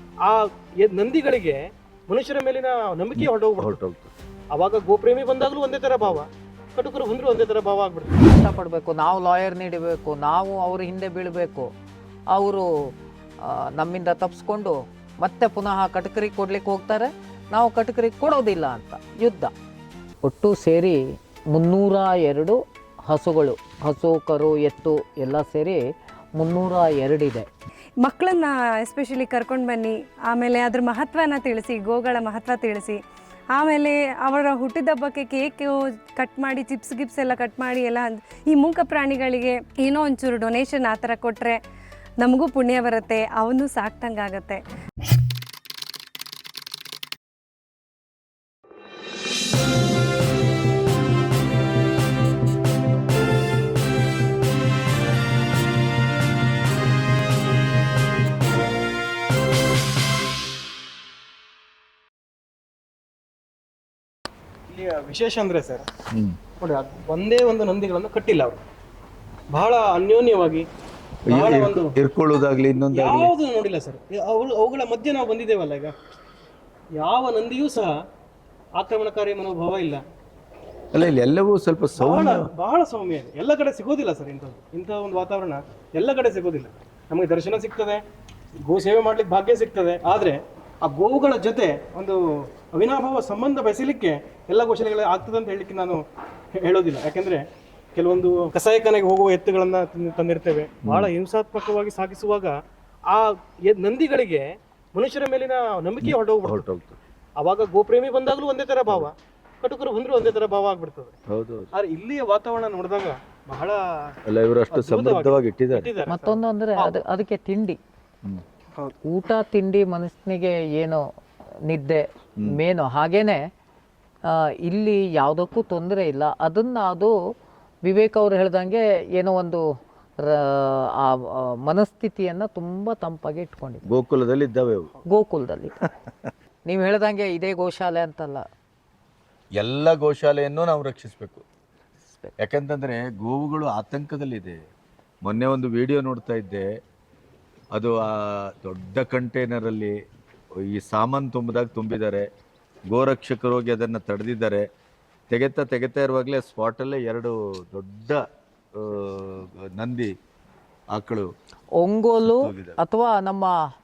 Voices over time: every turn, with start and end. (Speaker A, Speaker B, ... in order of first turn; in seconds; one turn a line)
Speaker A: 0.2-3.7
Speaker B: 3.1-4.1
Speaker A: 4.5-8.2
Speaker C: 8.2-11.7
Speaker C: 12.3-12.7
Speaker C: 13.4-19.5
Speaker C: 20.2-25.8
Speaker C: 26.4-27.5
Speaker D: 28.0-33.0
Speaker D: 33.5-41.6
Speaker D: 42.2-44.6
Speaker A: 64.7-65.9
Speaker B: 66.1-66.4
Speaker A: 66.6-68.6
Speaker A: 69.5-70.7
Speaker B: 71.2-73.3
Speaker A: 71.3-72.0
Speaker A: 72.9-76.0
Speaker A: 77.0-78.0
Speaker A: 78.8-80.0
Speaker B: 80.9-82.5
Speaker A: 82.0-88.0
Speaker A: 88.6-102.6
Speaker B: 100.8-101.1
Speaker A: 103.1-106.6
Speaker B: 106.0-107.0
Speaker A: 107.4-111.1
Speaker B: 111.3-111.7
Speaker A: 111.7-114.2
Speaker B: 114.2-115.9
Speaker A: 114.7-117.0
Speaker C: 116.1-117.8
Speaker C: 119.0-121.1
Speaker C: 121.7-123.5
Speaker C: 124.3-127.2
Speaker C: 127.8-129.6
Speaker C: 130.2-133.8
Speaker B: 133.8-134.9
Speaker C: 135.1-135.8
Speaker C: 136.7-138.4
Speaker B: 139.6-141.4
Speaker C: 142.1-142.3
Speaker B: 142.4-144.6
Speaker B: 145.2-146.7
Speaker B: 147.7-149.9
Speaker B: 150.6-152.3
Speaker B: 152.9-154.7
Speaker B: 155.3-158.2
Speaker B: 158.7-160.1
Speaker B: 160.9-161.3
Speaker C: 161.8-163.6
Speaker B: 162.2-162.8